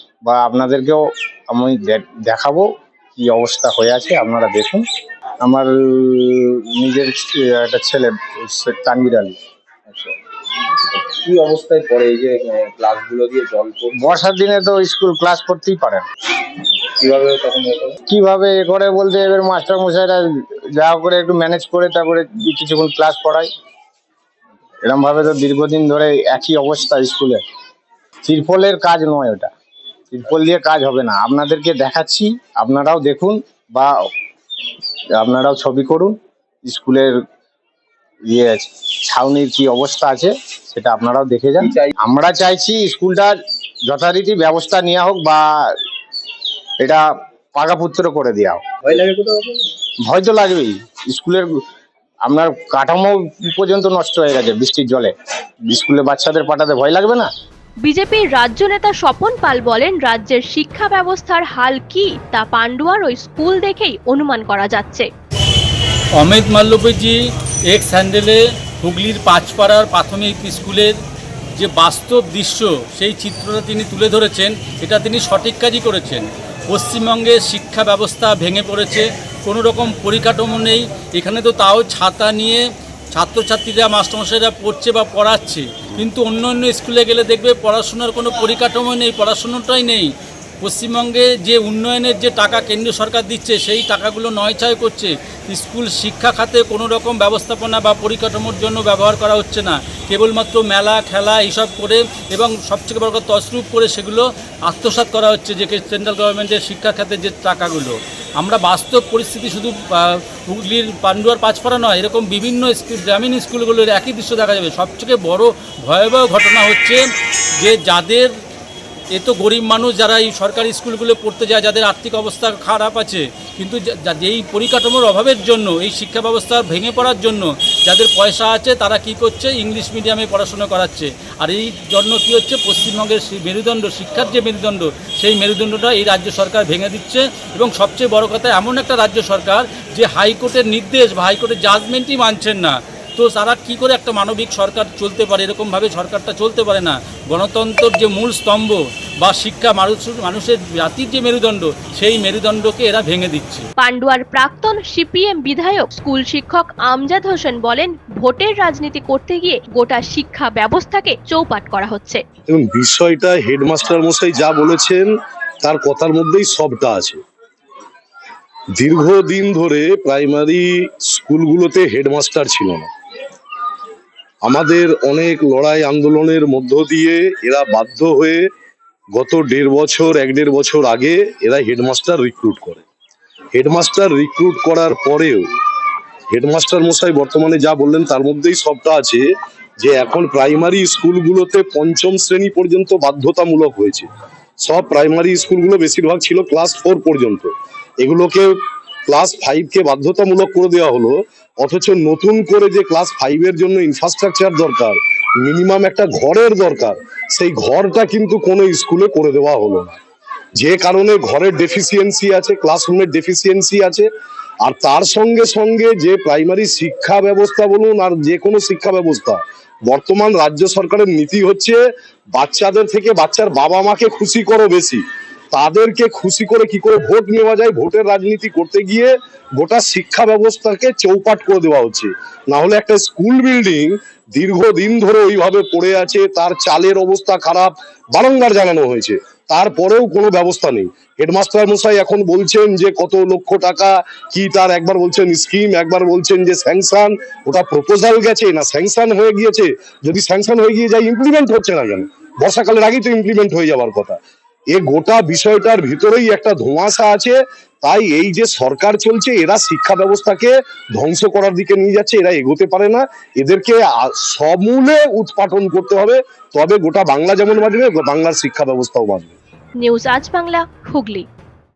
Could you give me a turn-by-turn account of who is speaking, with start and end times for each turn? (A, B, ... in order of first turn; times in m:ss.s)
0:00.2-0:04.8 A
0:05.4-0:09.4 A
0:09.9-0:10.2 B
0:10.9-0:14.0 B
0:13.9-0:16.0 A
0:16.9-0:18.0 B
0:18.1-0:23.5 A
0:24.8-0:27.4 A
0:28.2-0:29.5 A
0:30.1-0:33.9 A
0:35.2-0:37.2 A
0:38.3-0:45.8 A
0:41.6-0:41.9 B
0:46.8-0:48.6 A
0:48.9-0:49.6 B
0:50.0-0:51.5 A
0:52.2-0:55.1 A
0:55.7-0:57.3 A
0:57.8-1:05.1 C
1:06.2-1:07.2 D
1:07.7-1:10.9 D
1:11.6-1:30.1 D
1:30.6-1:57.0 D
1:57.6-1:58.3 D
1:59.1-2:33.6 D
2:33.8-2:42.2 C
2:42.5-2:45.1 E
2:45.6-2:47.2 E
2:48.8-2:52.9 E
2:54.4-2:58.4 E
2:59.1-3:02.8 E
3:03.5-3:05.4 E
3:06.3-3:09.2 E
3:09.8-3:14.1 E
3:14.6-3:18.5 E
3:19.1-3:30.0 E
3:30.6-3:34.1 E
3:34.6-3:41.8 E
3:42.3-3:45.0 E
3:45.5-4:14.2 E
4:14.7-4:29.4 E
4:29.8-4:31.2 C